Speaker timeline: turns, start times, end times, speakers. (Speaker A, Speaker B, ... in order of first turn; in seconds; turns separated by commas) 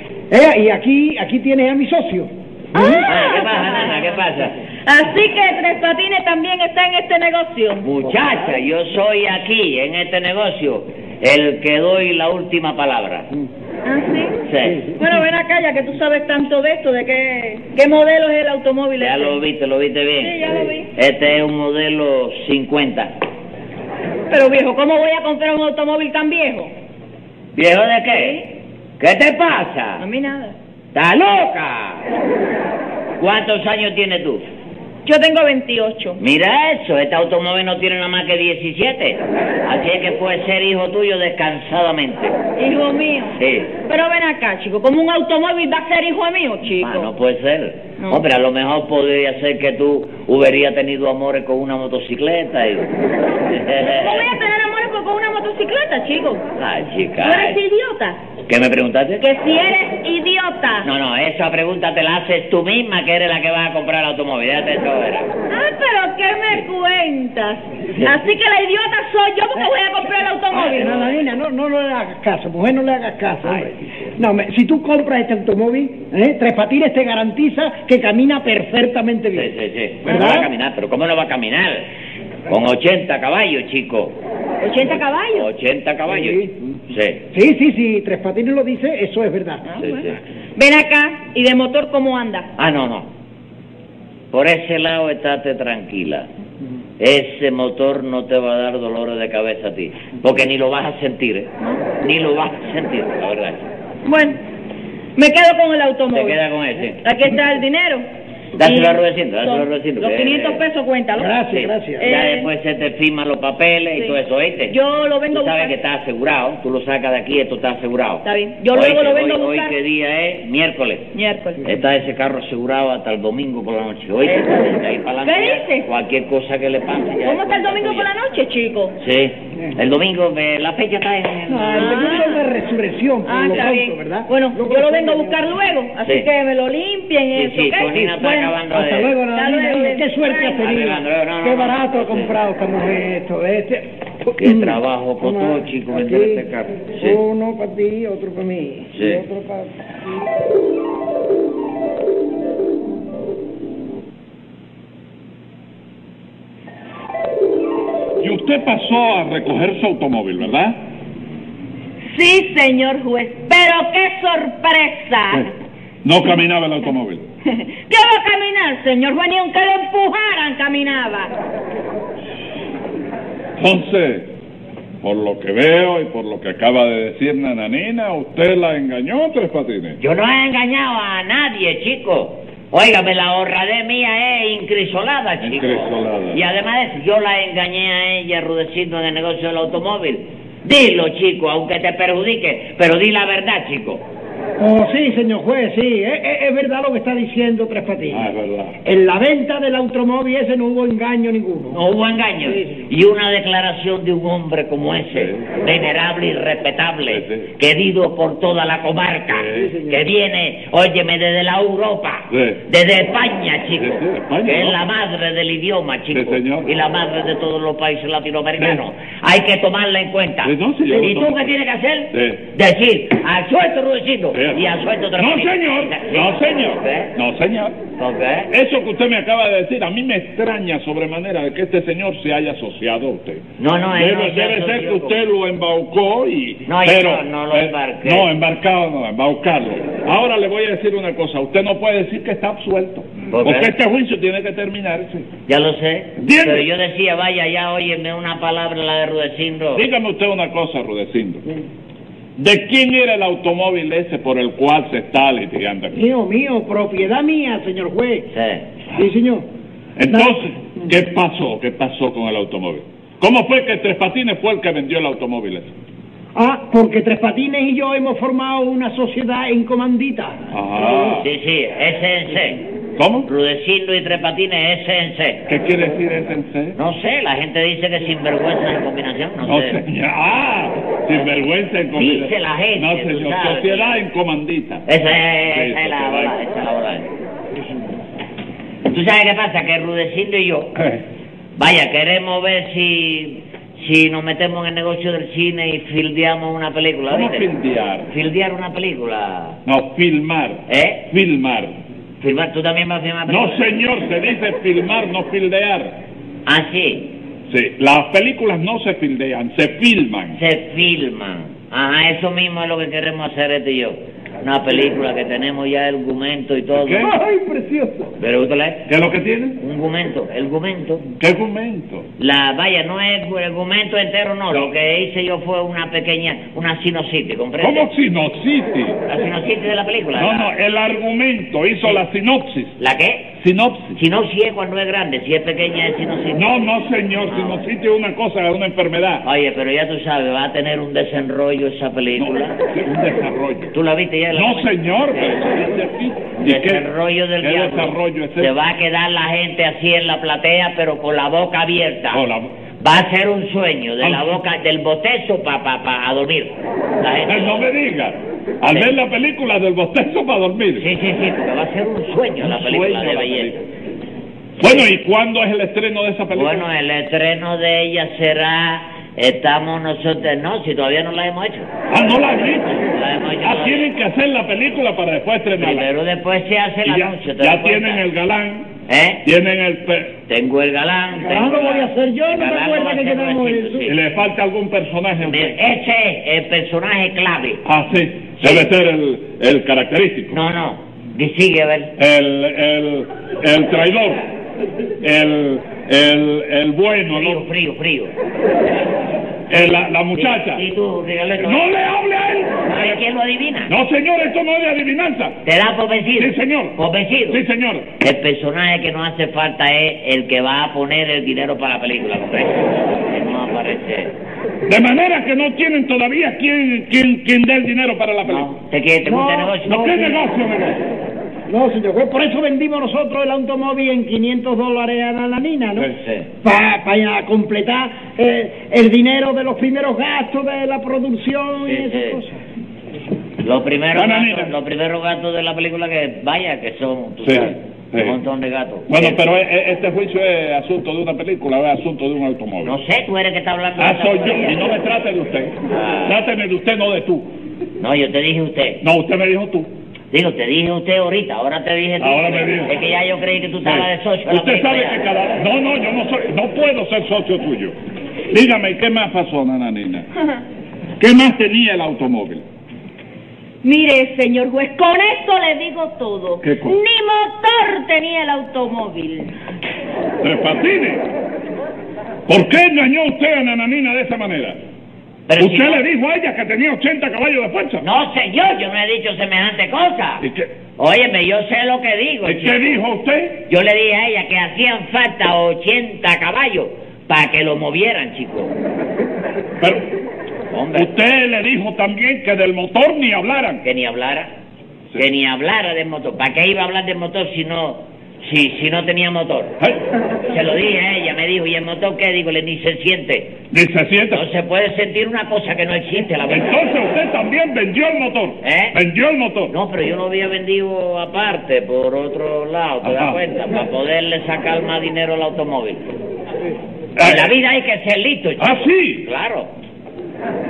Speaker A: 0.3-3.1, Speaker B: 2.7-4.1, Speaker C: 3.1-4.6, Speaker B: 4.9-7.9, Speaker C: 7.8-13.3, Speaker B: 13.8-19.4, Speaker C: 14.5-14.9, Speaker C: 19.0-23.1, Speaker B: 20.2-20.9, Speaker B: 24.3-26.7, Speaker C: 27.5-28.5, Speaker B: 28.1-28.5, Speaker C: 29.0-30.1, Speaker B: 30.0-30.6, Speaker C: 30.9-32.1, Speaker C: 33.2-34.4, Speaker B: 35.0-36.2, Speaker C: 36.2-42.4, Speaker B: 42.6-47.1, Speaker C: 43.4-43.7, Speaker C: 46.8-52.9, Speaker C: 53.5-54.4, Speaker B: 53.8-56.4, Speaker C: 56.6-57.6, Speaker B: 57.2-58.2, Speaker C: 58.5-59.2, Speaker B: 59.2-60.9, Speaker C: 60.8-65.3, Speaker B: 65.5-71.2, Speaker C: 67.9-68.2, Speaker A: 70.5-79.5, Speaker C: 73.4-73.7, Speaker C: 79.3-81.9, Speaker A: 80.0-80.5, Speaker C: 82.5-84.2, Speaker B: 84.6-85.5, Speaker C: 84.8-87.2, Speaker A: 86.1-86.4, Speaker A: 87.3-89.6, Speaker B: 89.7-92.5, Speaker C: 89.8-90.2, Speaker C: 92.6-93.1, Speaker C: 94.3-96.3, Speaker C: 97.0-103.7, Speaker B: 104.1-104.4, Speaker B: 105.2-106.4, Speaker C: 106.1-107.0, Speaker B: 107.0-111.3, Speaker C: 108.6-110.6, Speaker A: 111.2-112.1, Speaker C: 111.5-114.8, Speaker B: 112.0-112.5, Speaker B: 113.9-115.8, Speaker C: 115.3-121.1, Speaker B: 118.2-119.7, Speaker B: 121.1-121.6, Speaker C: 121.6-128.1, Speaker B: 125.2-125.9, Speaker B: 127.2-129.0, Speaker C: 129.0-132.3, Speaker A: 131.5-135.5, Speaker B: 131.8-132.4, Speaker B: 133.2-138.6, Speaker C: 136.0-136.3, Speaker C: 137.3-139.2, Speaker A: 138.7-149.7, Speaker B: 139.3-140.6, Speaker C: 140.6-142.3, Speaker C: 144.4-147.2, Speaker C: 148.9-149.2, Speaker D: 158.2-160.8, Speaker B: 162.1-165.5, Speaker D: 166.0-167.2, Speaker B: 167.5-171.3, Speaker D: 173.6-174.3, Speaker D: 175.0-180.0, Speaker C: 180.0-194.1, Speaker D: 185.4-186.4, Speaker A: 194.6-198.3, Speaker D: 198.1-198.8, Speaker A: 198.8-201.8, Speaker C: 201.7-227.1, Speaker A: 202.4-202.7, Speaker D: 205.1-205.5, Speaker D: 207.1-207.5, Speaker D: 209.3-209.8, Speaker A: 209.6-210.0, Speaker D: 212.3-212.6, Speaker D: 213.8-214.8, Speaker D: 216.1-216.7, Speaker D: 218.6-218.8, Speaker D: 220.4-221.5, Speaker D: 222.1-222.4, Speaker D: 224.3-227.8, Speaker C: 228.0-228.5, Speaker D: 228.5-245.3, Speaker C: 233.6-235.2, Speaker C: 236.7-238.3, Speaker C: 243.3-243.7, Speaker C: 245.5-249.8, Speaker D: 246.2-246.7, Speaker D: 249.8-251.4, Speaker D: 252.4-256.0, Speaker A: 255.9-258.3, Speaker C: 258.3-258.6, Speaker A: 258.9-259.4, Speaker D: 260.0-265.7, Speaker A: 260.1-260.9, Speaker A: 266.4-271.2, Speaker D: 270.5-271.3, Speaker C: 271.0-272.6, Speaker D: 273.0-273.3, Speaker C: 273.3-275.4, Speaker D: 275.5-276.8, Speaker C: 276.8-279.8, Speaker D: 279.5-284.9, Speaker C: 282.0-284.0, Speaker C: 284.9-287.1, Speaker D: 285.5-286.4, Speaker C: 288.9-290.7, Speaker D: 290.8-291.0, Speaker C: 291.6-297.5, Speaker D: 297.1-298.1, Speaker C: 298.1-299.6, Speaker D: 299.6-301.8, Speaker C: 300.7-301.1, Speaker C: 302.2-303.8, Speaker D: 303.3-306.0, Speaker C: 306.5-307.1, Speaker D: 307.5-310.4, Speaker C: 310.3-317.1, Speaker D: 316.7-318.1, Speaker C: 318.2-318.9, Speaker D: 318.9-319.6, Speaker C: 319.6-321.1, Speaker D: 321.2-322.1, Speaker C: 322.2-327.9, Speaker D: 327.6-329.0, Speaker C: 329.1-330.5, Speaker D: 330.2-332.8, Speaker C: 332.8-333.3, Speaker D: 333.4-334.0, Speaker C: 334.0-336.5, Speaker D: 336.3-339.2, Speaker C: 337.2-337.6, Speaker C: 339.2-342.6, Speaker D: 342.2-343.7, Speaker C: 343.7-345.4, Speaker D: 344.3-346.8, Speaker C: 346.4-352.2, Speaker D: 347.4-348.5, Speaker D: 352.1-352.5, Speaker C: 352.8-357.7, Speaker D: 354.0-354.4, Speaker D: 357.3-360.9, Speaker C: 358.7-358.9, Speaker C: 360.8-363.6, Speaker D: 362.4-363.6, Speaker C: 364.6-364.9, Speaker D: 364.6-366.7, Speaker C: 366.3-371.7, Speaker D: 371.9-375.9, Speaker C: 372.9-373.9, Speaker C: 375.6-378.0, Speaker D: 376.9-378.7, Speaker C: 378.9-379.2, Speaker D: 379.2-380.1, Speaker C: 380.3-384.0, Speaker A: 381.2-383.9, Speaker D: 383.9-385.6, Speaker C: 385.2-387.6, Speaker D: 387.6-390.4, Speaker C: 388.4-388.7, Speaker C: 390.3-391.9, Speaker D: 392.0-394.2, Speaker D: 395.0-397.4, Speaker C: 397.1-398.1, Speaker D: 399.5-400.6, Speaker C: 399.5-401.7, Speaker D: 401.4-403.0, Speaker C: 402.7-403.7, Speaker D: 403.7-405.4, Speaker C: 405.4-407.4, Speaker D: 406.2-406.8, Speaker D: 407.3-407.9, Speaker C: 408.0-414.2, Speaker D: 414.7-418.5, Speaker C: 418.2-420.1, Speaker A: 419.1-420.2, Speaker D: 419.7-420.9, Speaker A: 421.5-425.9, Speaker C: 425.8-426.3, Speaker A: 426.4-432.4, Speaker C: 431.7-432.2, Speaker C: 433.4-439.2, Speaker D: 433.9-434.5, Speaker D: 437.2-438.2, Speaker D: 438.9-442.8, Speaker C: 442.6-444.6, Speaker D: 443.8-447.3, Speaker C: 445.7-446.2, Speaker C: 447.8-448.8, Speaker D: 448.8-449.7, Speaker C: 450.1-455.0, Speaker D: 452.0-452.7, Speaker D: 453.6-457.8, Speaker D: 458.3-460.1, Speaker D: 461.0-462.4, Speaker B: 463.6-469.3, Speaker D: 466.4-466.8, Speaker D: 470.2-471.1, Speaker D: 472.3-474.6, Speaker C: 475.3-475.9, Speaker D: 475.4-477.8, Speaker C: 477.8-480.2, Speaker D: 480.2-480.5, Speaker C: 480.8-482.8, Speaker D: 482.3-483.4, Speaker C: 483.5-488.5, Speaker C: 490.5-490.9, Speaker D: 490.7-493.6, Speaker C: 493.6-494.3, Speaker C: 495.0-499.5, Speaker C: 500.3-503.3, Speaker D: 503.5-504.2, Speaker C: 504.1-506.6, Speaker D: 506.3-509.5, Speaker C: 508.4-508.8, Speaker C: 509.5-515.9, Speaker D: 512.8-513.2, Speaker D: 517.0-517.4, Speaker C: 517.0-519.5, Speaker D: 518.4-519.1